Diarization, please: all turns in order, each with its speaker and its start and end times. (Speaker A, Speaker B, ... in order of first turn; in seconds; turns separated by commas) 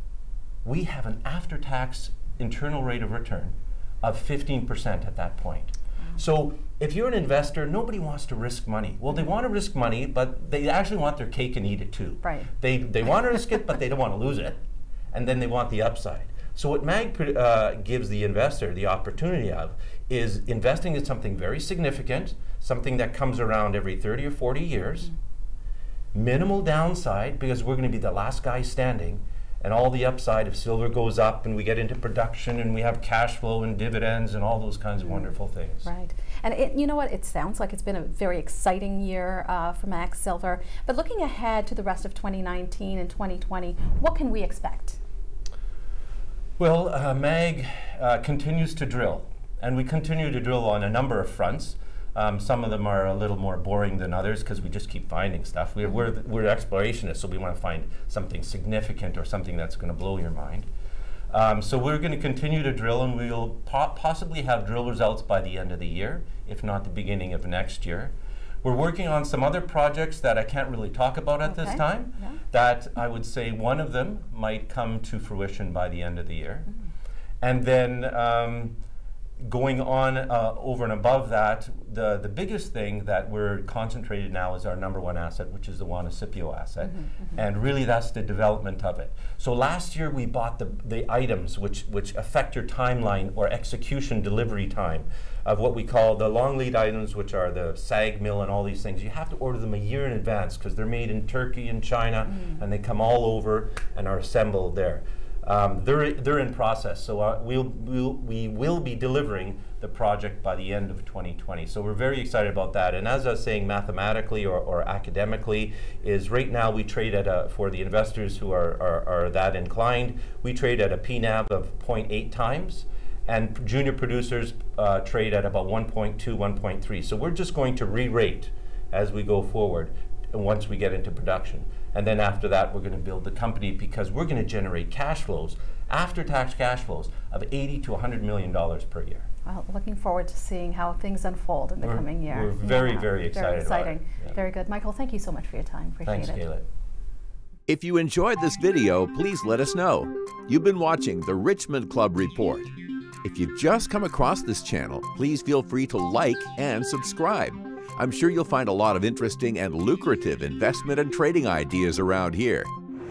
Speaker A: 0.6-14.6, Speaker B: 12.2-12.5, Speaker A: 15.1-25.1, Speaker A: 26.1-35.9, Speaker B: 35.9-45.0, Speaker A: 46.6-60.7, Speaker A: 61.3-76.7, Speaker B: 71.5-72.4, Speaker A: 77.4-78.8, Speaker A: 79.4-139.2, Speaker B: 139.5-146.5, Speaker A: 141.8-144.3, Speaker A: 146.1-146.7, Speaker C: 147.7-152.7, Speaker C: 153.2-162.7